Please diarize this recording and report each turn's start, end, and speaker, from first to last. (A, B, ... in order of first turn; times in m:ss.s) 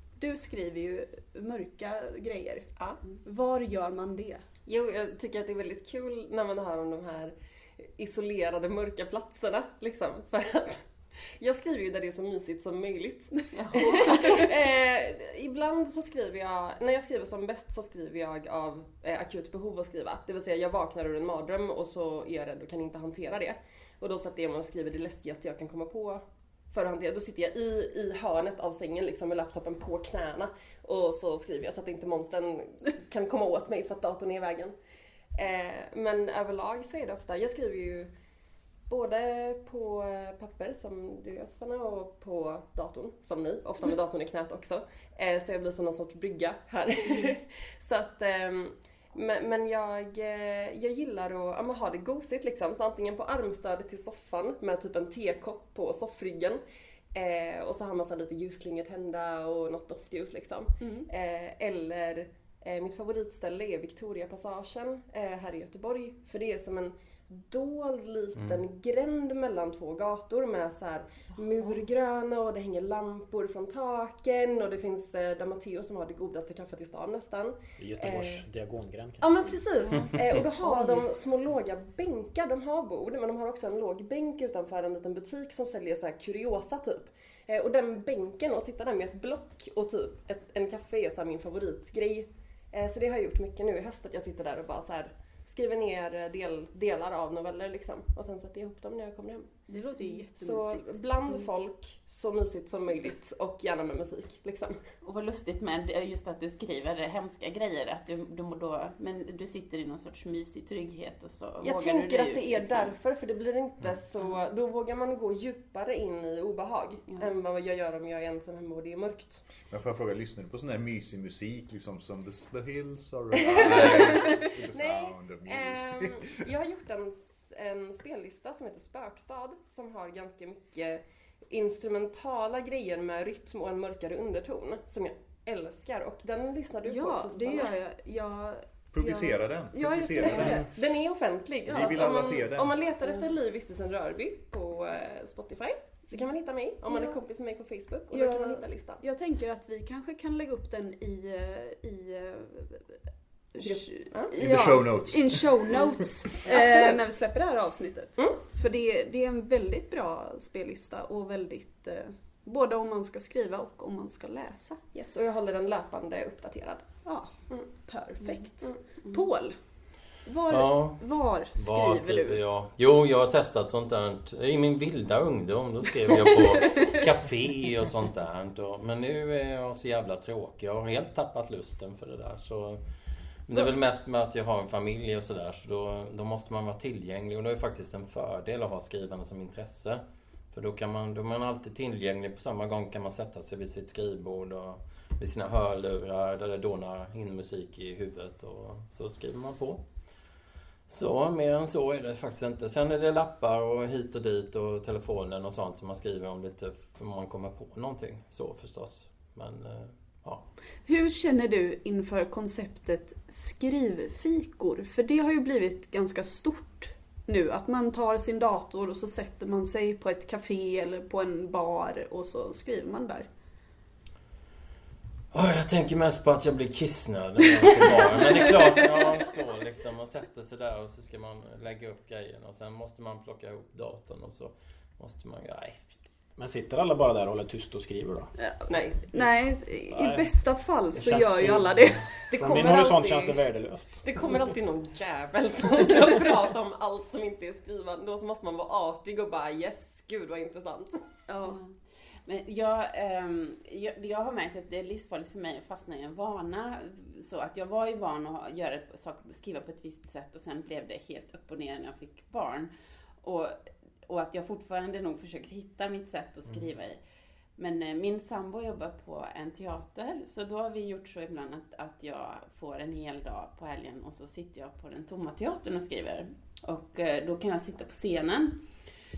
0:00.2-0:04.4 A
0:04.7-0:34.8 B
0:13.5-0:14.4 A
0:13.6-0:14.4 C
0:35.4-0:38.1 B
0:38.9-0:56.6 B
0:57.1-1:18.4 B
1:00.8-1:01.1 A
1:08.4-1:08.6 D
1:17.8-1:19.4 E
1:19.2-1:39.6 B
1:39.7-1:41.5 A
1:40.3-1:44.8 B
1:45.0-1:52.9 C
1:51.6-1:59.5 B
1:59.7-2:06.4 F
2:03.4-2:17.7 B
2:03.6-2:04.0 D
2:16.8-2:20.7 A
2:18.9-2:20.7 F
2:20.2-2:29.0 B
2:21.7-2:22.8 F
2:26.9-2:27.2 A
2:28.1-2:33.0 A
2:33.6-2:44.8 A
2:33.6-2:34.4 B
2:34.4-2:35.8 F
2:36.4-2:37.0 B
2:44.9-2:46.9 B
2:47.0-2:49.6 A
2:50.2-2:52.4 A
2:50.5-3:02.8 D
3:03.4-3:19.8 D
3:20.9-3:30.5 D
3:30.8-3:43.3 A
3:45.3-3:55.8 D
3:48.6-3:49.1 A
3:56.4-3:58.3 E
3:58.4-4:02.2 A
3:58.7-3:59.1 B
3:59.9-4:04.0 E
4:02.3-4:11.0 B
4:11.3-4:11.6 A
4:11.4-4:22.7 C
4:23.2-4:27.0 C
4:27.6-4:38.6 C